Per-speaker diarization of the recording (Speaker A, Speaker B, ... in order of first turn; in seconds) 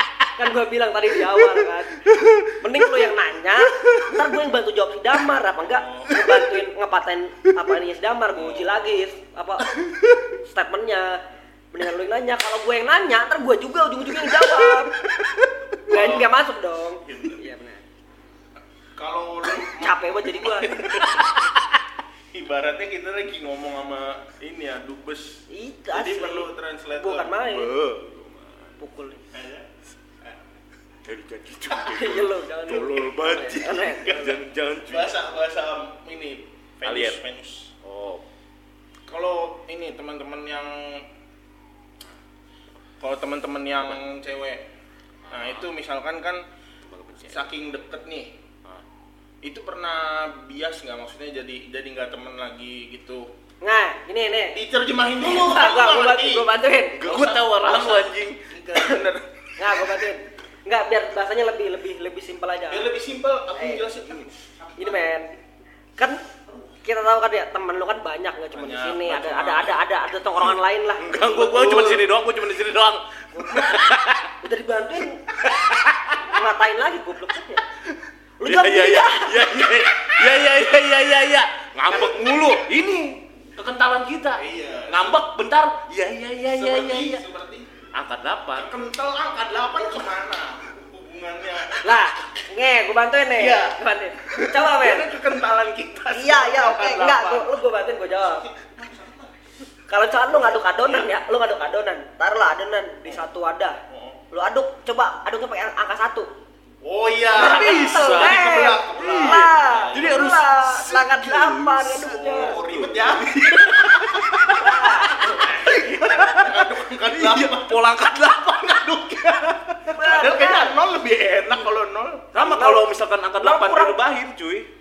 Speaker A: 0.3-9.8, 10.4-11.2, 11.7-15.0, 15.8-17.8, 19.7-21.0, 25.5-27.7, 28.8-29.2, 31.8-34.4, 53.6-54.6, 55.2-57.0, 59.6-62.9, 63.5-63.9, 64.8-65.3, 66.0-66.2, 66.8-71.2, 73.3-73.8, 74.4-75.2, 76.3-77.6, 78.4-79.7, 91.8-95.1, 96.1-98.4, 99.9-103.8, 104.3-106.3, 107.3-112.5, 114.5-115.5, 119.9-120.7, 122.3-122.9, 123.4-124.0
Speaker B: 2.1-2.4, 27.4-28.7, 31.0-35.1, 36.8-37.2, 37.8-38.2, 46.8-47.5, 57.0-58.4, 71.0-74.3, 75.4-76.3, 78.4-87.2, 87.9-88.7, 107.3-119.3, 122.3-124.7
Speaker C: 5.6-6.2, 8.3-8.8, 15.9-16.4, 17.0-17.4, 18.9-21.2, 22.3-27.4, 29.3-29.7, 34.8-37.7, 39.0-41.1, 43.0-44.7, 45.3-46.4, 47.3-48.3, 49.4-53.3, 54.5-56.5, 57.0-59.9, 62.7-65.0, 68.5-69.8, 71.2-72.1, 81.9-82.6, 84.3-85.2, 86.5-87.8, 88.5-91.9, 93.3-99.4, 100.3-101.1, 103.9-104.2, 106.8-110.3, 112.1-117.8, 118.6-122.3